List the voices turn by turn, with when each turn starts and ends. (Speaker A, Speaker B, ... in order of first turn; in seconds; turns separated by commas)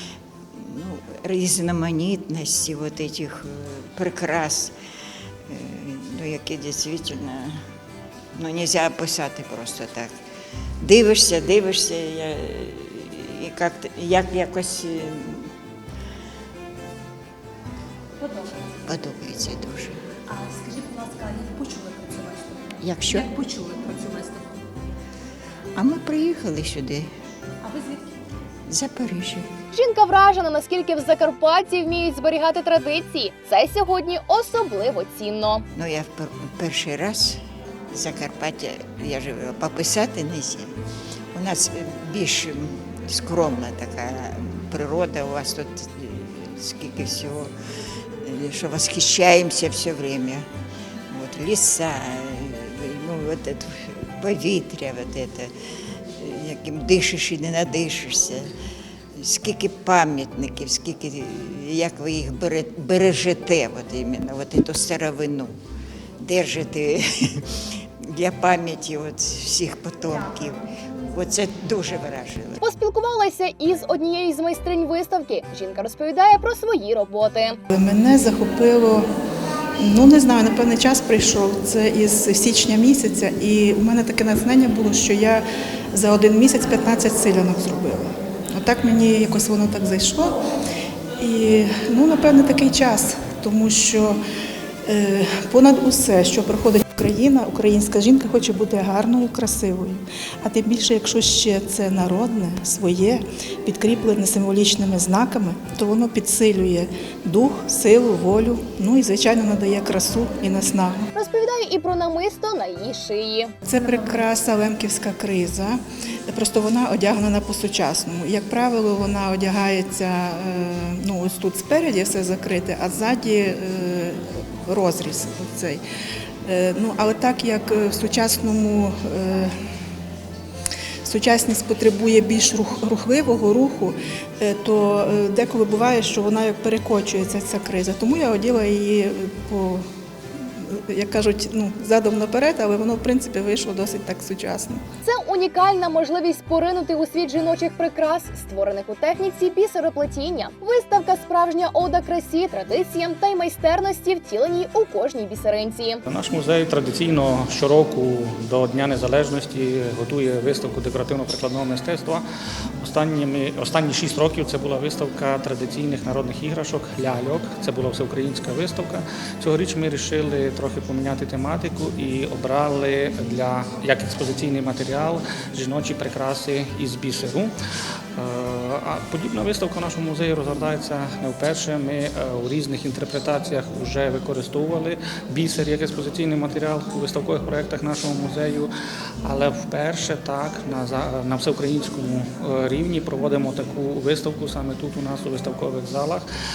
Speaker A: 0.6-4.7, Speaker A: 5.5-7.6, Speaker A: 8.4-10.2, Speaker A: 10.8-15.5, Speaker A: 18.9-20.0, Speaker B: 20.3-22.6, Speaker A: 22.8-23.6, Speaker B: 23.4-24.6, Speaker A: 25.8-27.1, Speaker B: 27.8-28.0, Speaker A: 28.7-29.5, Speaker C: 29.7-35.6, Speaker A: 35.8-37.4, Speaker A: 37.9-40.7, Speaker A: 41.3-47.5, Speaker A: 48.2-50.5, Speaker A: 51.1-55.5, Speaker A: 56.2-58.5, Speaker A: 59.2-65.5, Speaker A: 66.2-72.6, Speaker C: 72.6-77.6, Speaker D: 77.7-79.1, Speaker D: 79.8-90.4, Speaker D: 91.2-94.2, Speaker D: 94.8-111.1, Speaker C: 111.1-113.5, Speaker D: 113.6-125.8, Speaker D: 126.5-129.6, Speaker D: 131.0-139.8, Speaker D: 140.6-144.8, Speaker C: 145.0-156.0, Speaker E: 156.1-162.2, Speaker E: 162.8-177.5, Speaker E: 178.2-188.7, Speaker E: 189.2-196.3